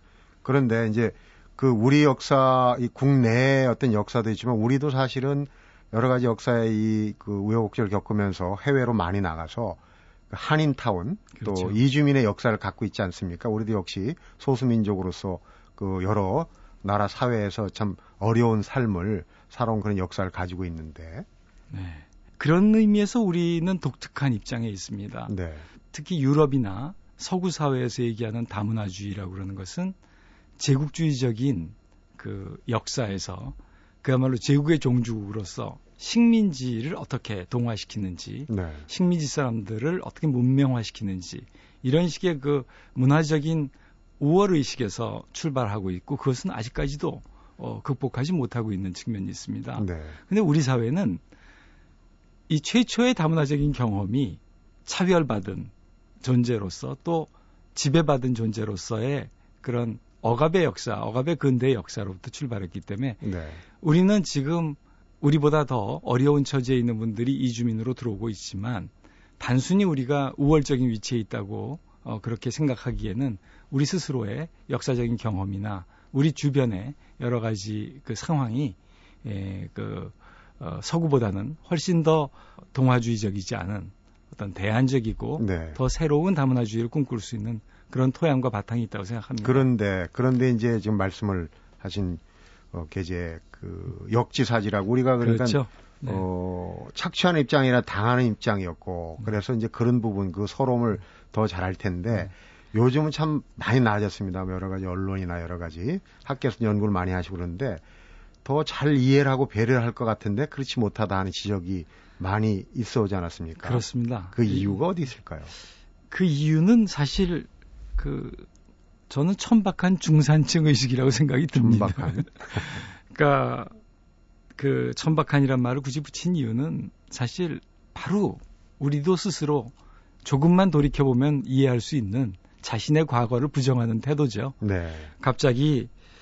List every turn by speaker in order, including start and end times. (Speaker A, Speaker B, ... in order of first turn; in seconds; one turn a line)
Speaker A: 0.4-21.3
Speaker B: 11.3-11.8
Speaker B: 21.7-25.3
Speaker A: 25.3-25.7
Speaker B: 25.9-29.9
Speaker B: 30.6-51.2
Speaker A: 38.5-38.9
Speaker A: 49.8-50.2
Speaker B: 52.5-63.2
Speaker A: 63.2-63.6
Speaker B: 63.8-89.7
Speaker A: 85.4-85.8
Speaker A: 89.4-92.2
Speaker A: 92.7-107.8
Speaker B: 95.2-96.2
Speaker A: 108.4-115.5
Speaker B: 113.6-114.8
Speaker B: 116.1-118.5
Speaker B: 119.1-123.8
Speaker A: 121.6-122.7
Speaker B: 124.5-129.7
Speaker B: 130.2-134.6
Speaker A: 134.6-135.1
Speaker B: 135.2-135.9